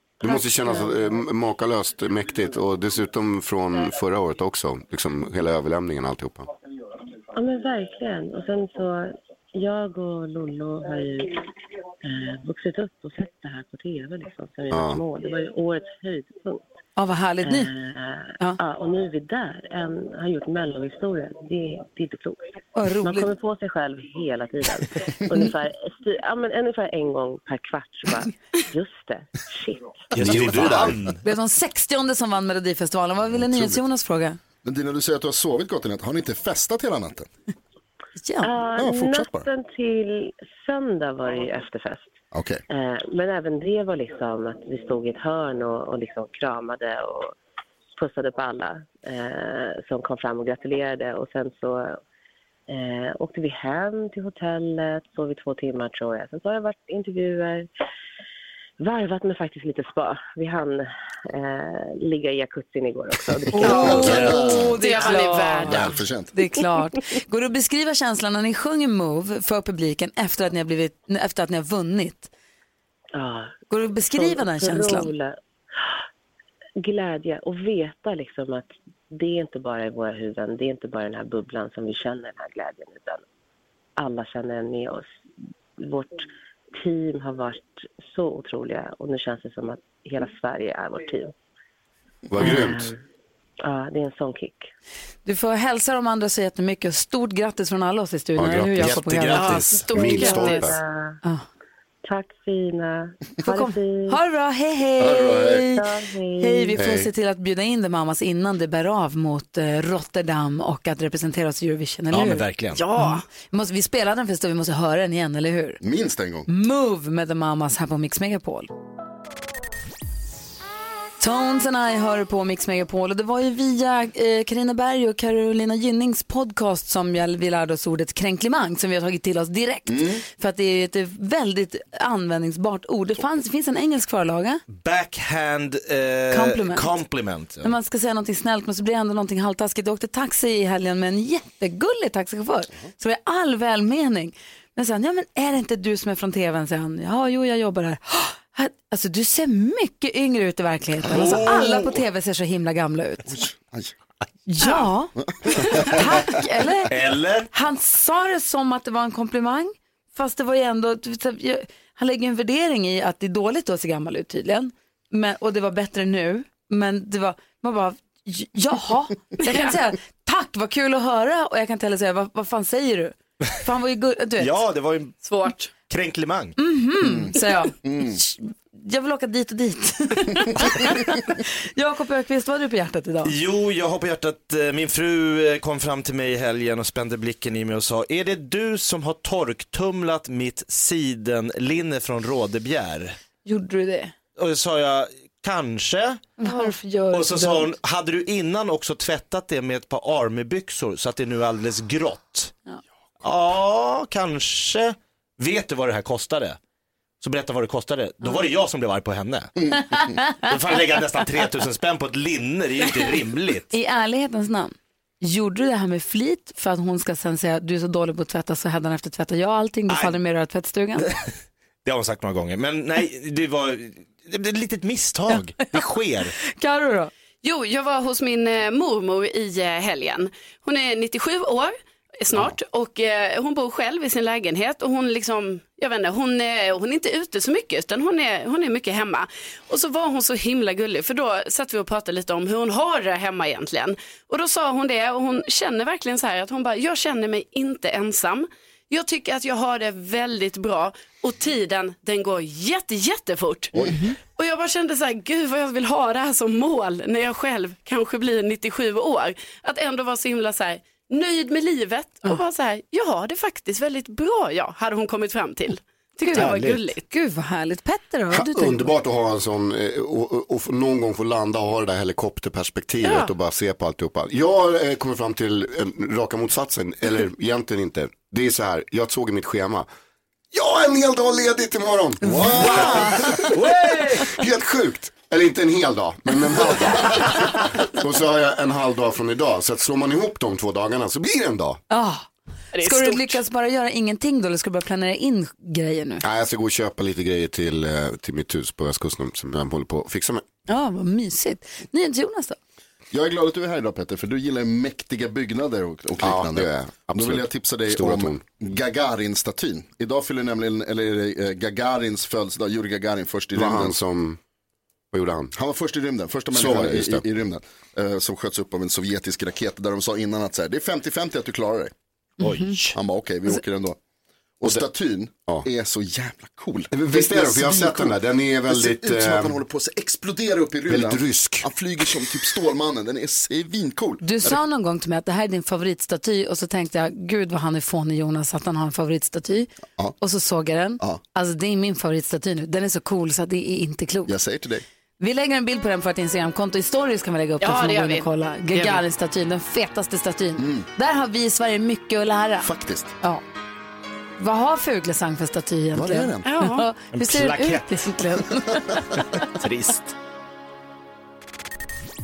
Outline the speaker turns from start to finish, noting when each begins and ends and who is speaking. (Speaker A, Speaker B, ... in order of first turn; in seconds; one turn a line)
Speaker A: 0.2-6.5
Speaker B: 7.3-11.5
Speaker B: 12.0-16.6
Speaker A: 14.7-15.0
Speaker C: 17.0-17.7
Speaker B: 17.4-22.4
Speaker C: 22.8-23.3
Speaker B: 23.0-30.8
Speaker D: 30.1-31.2
Speaker E: 30.2-30.8
Speaker C: 31.2-34.4
Speaker E: 33.3-33.8
Speaker E: 34.6-37.3
Speaker C: 38.2-38.5
Speaker B: 38.4-42.1
Speaker E: 38.8-39.5
Speaker E: 42.3-42.6
Speaker B: 42.7-47.4
Speaker B: 48.0-52.0
Speaker B: 52.7-57.7
Speaker B: 58.8-65.1
Speaker E: 63.5-64.7
Speaker C: 63.5-72.3
Speaker F: 63.6-66.0
Speaker D: 63.9-64.6
Speaker E: 65.7-66.3
Speaker B: 73.2-75.4
Speaker C: 73.7-75.1
Speaker B: 76.8-83.2
Speaker B: 84.0-85.1
Speaker B: 85.8-91.3
Speaker A: 92.3-92.9
Speaker B: 92.4-93.0
Speaker B: 93.6-94.7
Speaker C: 95.3-99.6
Speaker A: 98.4-99.0
Speaker D: 98.8-99.9
Speaker F: 99.3-100.7
Speaker A: 99.9-100.8
Speaker B: 100.0-101.2
Speaker B: 102.0-104.2
Speaker C: 103.5-105.9
Speaker E: 105.0-105.6
Speaker B: 105.5-106.8
Speaker C: 106.4-112.4
Speaker A: 106.8-107.1
Speaker D: 112.1-112.8
Speaker F: 112.8-113.2
Speaker C: 113.0-115.8
Speaker E: 115.8-116.5
Speaker C: 116.5-118.7
Speaker C: 121.2-134.6
Speaker E: 129.9-130.2
Speaker D: 134.7-137.7
Speaker C: 136.3-136.9
Speaker C: 137.6-153.3
Speaker E: 151.1-151.9
Speaker D: 151.2-151.5
Speaker E: 153.3-153.9
Speaker C: 154.5-156.9
Speaker D: 156.9-157.5
Speaker C: 157.5-174.6
Speaker F: 169.4-169.7
Speaker D: 174.4-175.2
Speaker F: 175.2-175.7
Speaker D: 175.9-176.6
Speaker C: 176.6-183.3
Speaker E: 177.0-178.2
Speaker D: 183.2-193.2
Speaker C: 193.4-194.1
Speaker D: 194.4-196.6
Speaker C: 196.4-197.7
Speaker D: 197.1-202.5
Speaker D: 203.2-206.6
Speaker D: 207.2-209.5
Speaker E: 209.6-210.2
Speaker D: 210.4-213.7
Speaker C: 213.7-221.1
Speaker D: 219.9-220.2
Speaker D: 221.0-221.3
Speaker D: 221.8-226.3
Speaker C: 225.3-225.8
Speaker C: 226.5-227.1
Speaker F: 227.4-253.9
Speaker F: 254.4-267.0
Speaker C: 266.2-268.9
Speaker A: 268.3-279.9
Speaker F: 273.0-273.3
Speaker A: 280.5-291.8
Speaker E: 282.2-283.1
Speaker D: 283.6-284.2
Speaker C: 291.9-292.3
Speaker F: 292.7-293.4
Speaker C: 292.8-296.2
Speaker A: 296.2-300.4
Speaker C: 300.7-302.6
Speaker E: 303.1-314.0
Speaker A: 306.2-308.4
Speaker A: 313.5-314.4
Speaker A: 315.1-315.5
Speaker E: 315.5-321.9
Speaker A: 316.5-317.2
Speaker C: 322.4-322.8
Speaker D: 322.4-323.0
Speaker E: 322.9-324.0
Speaker E: 324.6-334.6
Speaker A: 326.9-329.6
Speaker A: 330.9-332.4
Speaker C: 334.2-339.7
Speaker C: 340.2-344.4
Speaker E: 344.3-344.8
Speaker C: 345.2-352.7
Speaker F: 347.6-349.0
Speaker E: 350.6-350.9
Speaker E: 352.6-353.1
Speaker C: 354.4-359.2
Speaker E: 355.9-356.5
Speaker F: 356.4-356.9
Speaker D: 357.1-357.9
Speaker D: 359.4-360.1